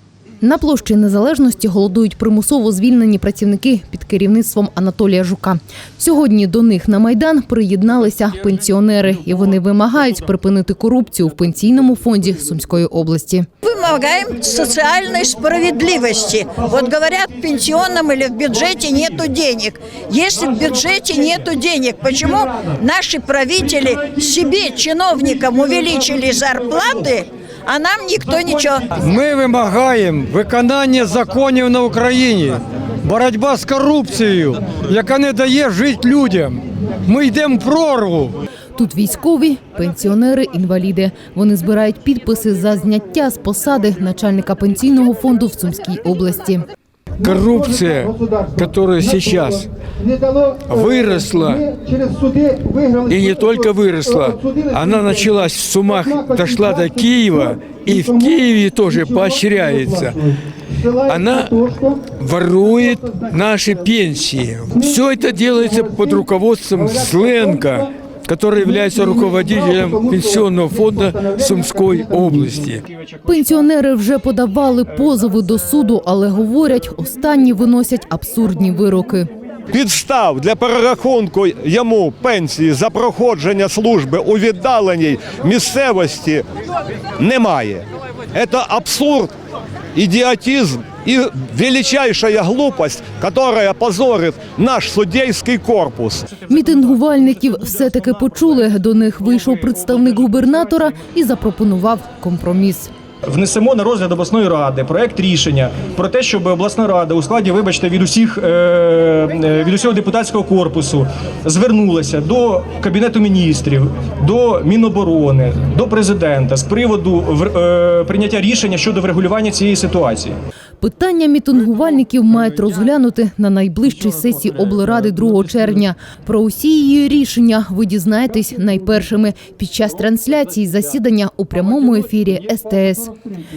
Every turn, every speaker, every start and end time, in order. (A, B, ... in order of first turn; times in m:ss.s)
0:00.4-0:13.5 A
0:13.6-0:29.0 B
0:29.0-0:38.4 C
0:38.8-0:46.6 A
0:47.2-0:49.7 C
0:50.5-0:52.1 C
0:53.0-1:00.3 C
1:00.8-1:12.8 C
1:13.2-1:19.3 A
1:19.7-1:26.4 D
1:27.2-1:29.3 D
1:29.9-1:36.2 D
1:36.5-1:42.9 A
1:43.3-2:00.4 E
2:00.8-2:13.1 A